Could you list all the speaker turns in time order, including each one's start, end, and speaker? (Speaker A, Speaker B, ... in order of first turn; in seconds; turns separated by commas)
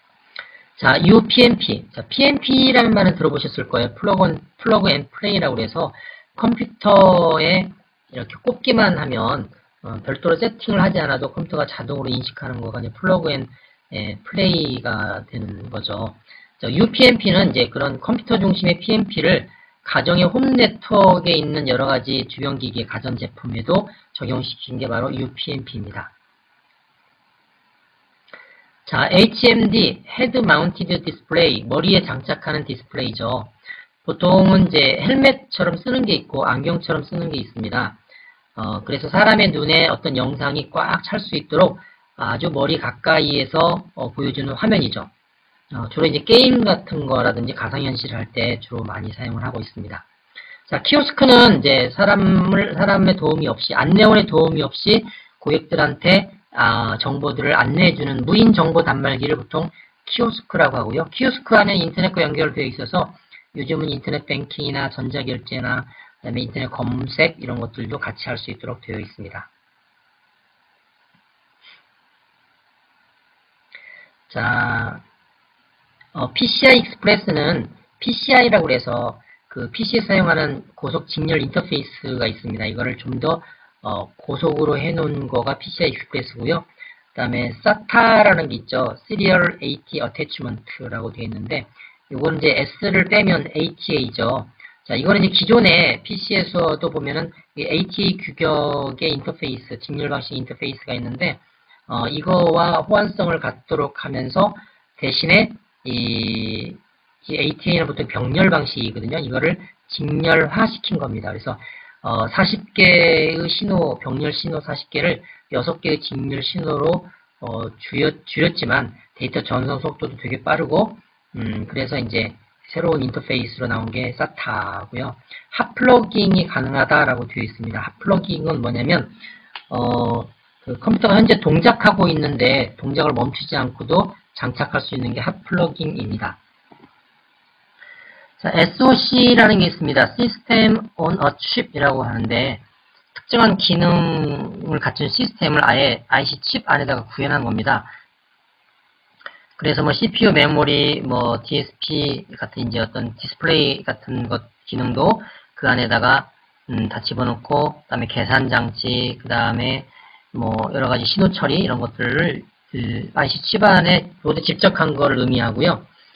Speaker A: 0.8-26.1, Speaker A: 28.9-33.5, Speaker A: 34.0-38.0, Speaker A: 38.5-45.1, Speaker A: 45.7-50.0, Speaker A: 50.7-69.5, Speaker A: 74.3-75.0, Speaker A: 76.1-129.2, Speaker A: 129.7-136.4, Speaker A: 138.4-142.6, Speaker A: 143.1-147.9, Speaker A: 149.6-165.9